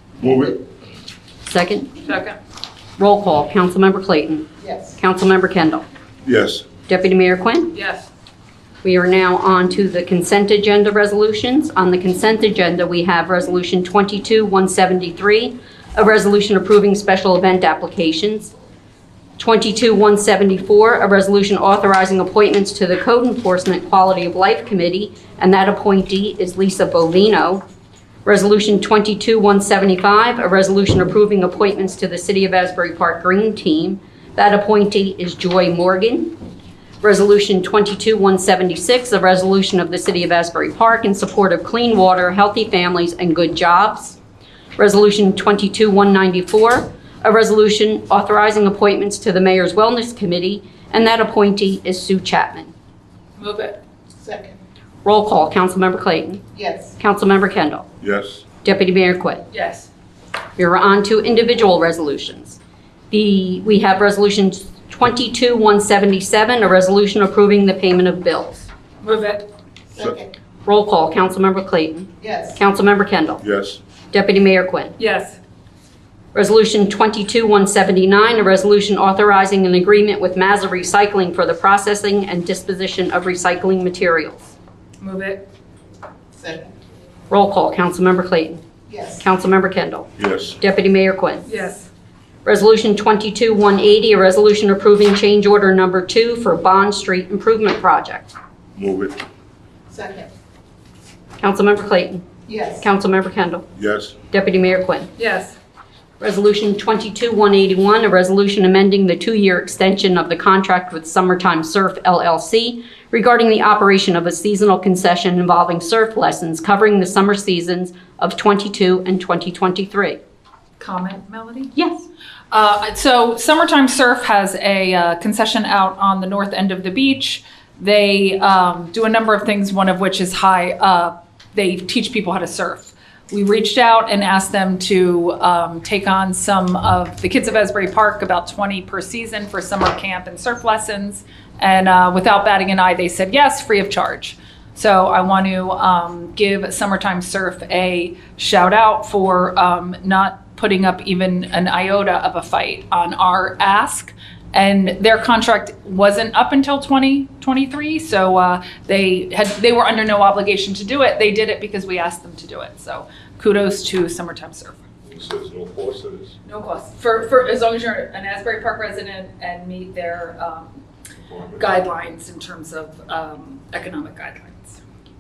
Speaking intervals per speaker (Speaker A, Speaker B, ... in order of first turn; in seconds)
Speaker A: 0.2-0.7, 6.2-6.7, 58.0-58.4, 73.4-73.8, 90.2-90.6, 98.8-99.2, 103.8-104.2, 165.1-166.3, 171.3-171.7
Speaker B: 1.5-1.9, 3.0-5.8, 6.9-7.7, 8.8-18.5, 19.4-27.6, 28.2-36.4, 37.0-44.2, 44.8-52.7, 55.0-56.4, 57.0-57.9, 58.6-59.4, 60.6-62.6, 63.1-68.7, 70.7-73.4, 74.1-75.0, 76.3-84.5, 87.3-88.6, 89.2-91.5, 92.5-98.3, 101.4-102.2, 102.8-103.7, 104.3-105.1, 106.2-120.2, 121.8-122.1
Speaker C: 2.0-2.4, 7.7-8.1, 53.4-53.8, 59.5-59.9, 69.0-69.5, 75.0-75.4, 85.0-85.5, 91.5-91.9, 105.2-105.5, 120.8-121.8, 122.5-164.8, 166.4-170.8, 171.6-174.8
Speaker D: 4.7-4.9, 54.2-54.6, 56.6-56.9, 69.9-70.3, 72.2-72.6, 86.4-86.7, 88.9-89.2, 99.9-100.3, 102.5-102.9